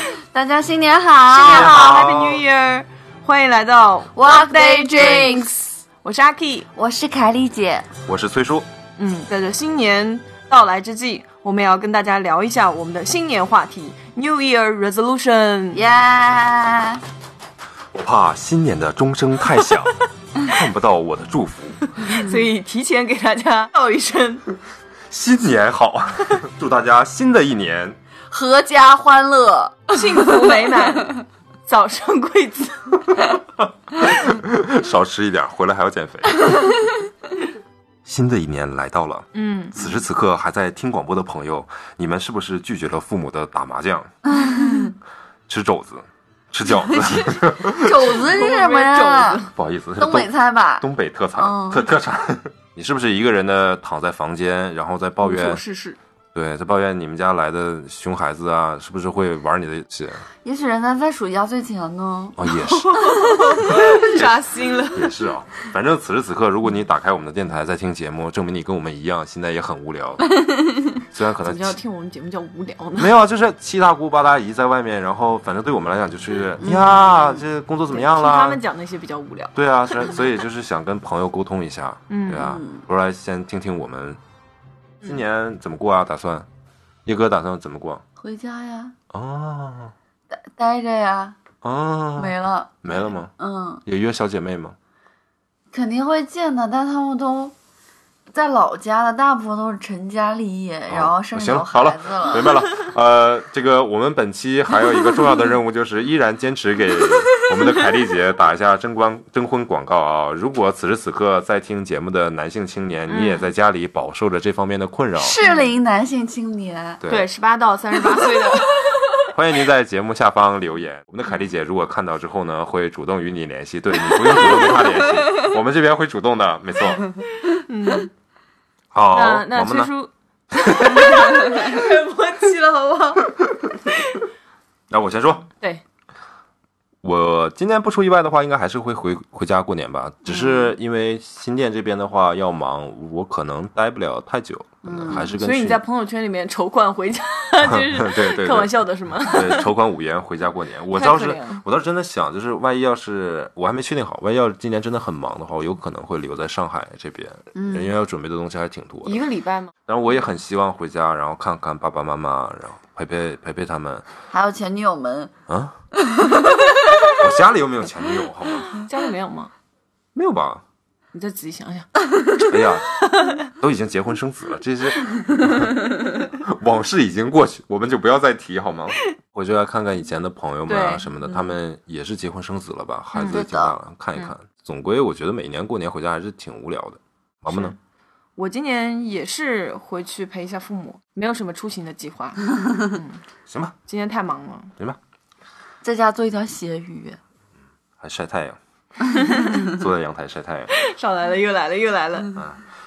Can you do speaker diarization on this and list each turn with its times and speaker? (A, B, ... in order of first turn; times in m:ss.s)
0:00.2-0:01.7 A
0:01.3-0:06.7 B
0:01.4-0:02.4 C
0:04.1-0:05.6 A
0:06.7-0:07.9 A
0:08.1-0:08.7 C
0:09.0-0:15.8 B
0:15.7-0:17.0 A
0:17.9-0:22.1 C
0:21.9-0:24.4 B
0:25.1-0:28.0 C
0:28.3-0:31.0 A
0:29.9-0:33.2 B
0:33.9-0:36.6 C
0:38.0-0:44.2 C
0:39.3-0:39.8 B
0:44.2-0:44.9 A
0:44.4-0:44.9 B
0:45.5-0:48.2 C
0:46.7-0:49.4 A
0:48.1-0:49.5 B
0:49.5-0:55.6 C
0:50.0-0:51.8 A
0:55.2-0:56.0 B
0:56.3-1:00.2 C
1:00.4-1:02.5 A
1:02.4-1:03.0 C
1:02.6-1:05.1 B
1:03.4-1:03.6 A
1:03.6-1:10.3 C
1:10.3-1:11.0 A
1:11.0-1:11.8 C
1:11.4-1:13.1 B
1:13.0-1:18.6 C
1:16.6-1:17.4 A
1:17.9-1:20.2 B
1:19.5-1:24.2 C
1:22.1-1:22.4 B
1:22.3-1:22.8 A
1:25.0-1:26.5 C
1:27.0-1:28.0 C
1:28.2-1:29.0 A
1:29.1-1:29.9 C
1:30.3-1:31.4 A
1:31.6-1:33.3 C
1:32.2-1:33.8 A
1:33.8-1:34.8 C
1:35.7-1:37.5 A
1:38.3-1:42.6 A
1:40.9-1:55.4 C
1:47.0-1:47.7 A
1:53.1-1:53.5 B
1:55.2-1:57.0 A
1:55.4-1:55.7 B
1:57.0-1:57.3 C
1:57.1-1:59.1 B
1:59.3-2:07.1 C
2:07.4-2:08.1 B
2:08.9-2:09.9 C
2:09.1-2:13.3 B
2:10.6-2:11.5 C
2:14.9-2:15.5 C
2:17.0-2:25.8 C
2:20.3-2:20.7 A
2:24.8-2:25.3 A
2:25.4-2:29.7 B
2:27.7-2:39.2 C
2:30.9-2:31.6 B
2:37.5-2:37.9 A
2:39.0-2:39.7 B
2:39.9-2:44.0 C
2:44.3-2:45.3 A
2:45.5-2:45.8 C
2:46.0-2:47.2 A
2:47.0-2:48.7 C
2:48.7-2:49.5 B
2:50.1-2:50.6 C
2:51.1-2:53.4 B
2:52.5-3:07.7 C
3:00.7-3:01.0 B
3:03.1-3:03.4 B
3:03.3-3:03.8 A
3:07.5-3:07.8 B
3:08.4-3:13.2 B
3:13.5-3:13.7 C
3:13.8-3:14.7 B
3:15.8-3:17.2 A
3:18.0-3:18.6 C
3:19.0-3:19.7 B
3:19.4-3:20.7 C
3:20.7-3:22.3 B
3:22.3-3:22.6 C